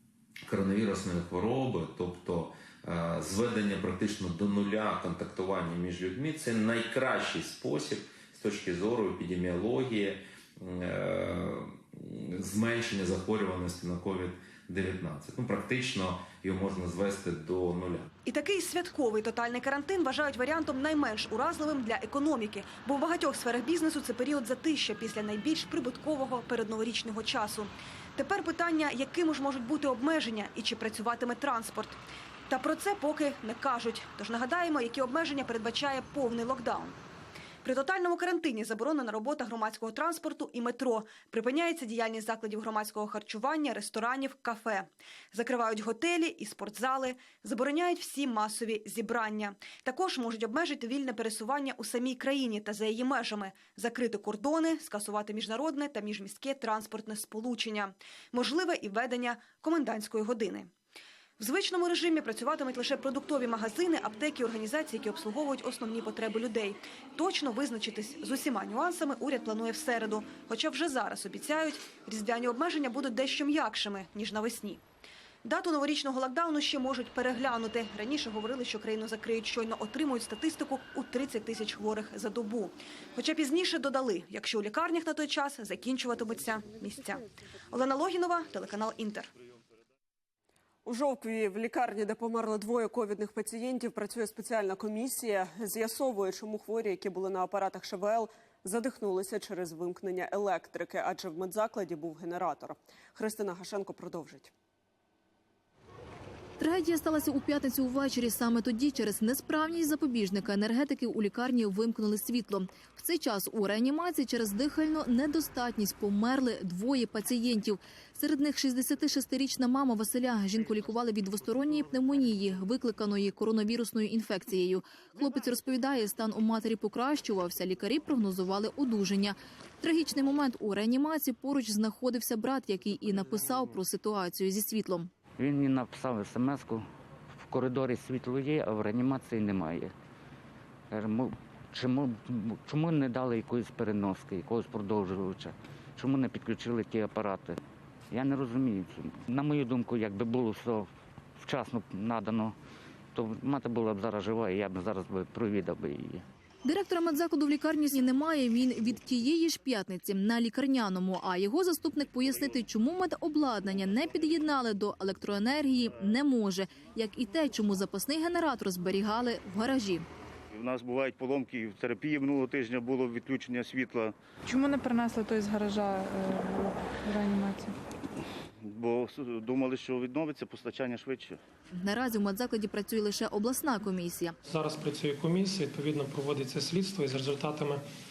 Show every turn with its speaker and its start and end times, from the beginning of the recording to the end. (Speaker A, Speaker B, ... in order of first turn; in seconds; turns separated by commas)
Speaker A: 0.5-18.1, Speaker B: 18.3-37.0, Speaker B: 37.6-60.7, Speaker B: 61.4-74.8, Speaker B: 75.4-89.3, Speaker C: 90.8-104.5, Speaker D: 106.6-135.1, Speaker E: 135.4-139.9, Speaker E: 140.9-147.6, Speaker E: 148.1-152.6, Speaker E: 153.1-156.2, Speaker D: 156.7-170.1, Speaker F: 170.5-174.2, Speaker G: 174.5-177.8, Speaker F: 178.6-181.4, Speaker D: 181.8-184.4, Speaker H: 184.5-187.8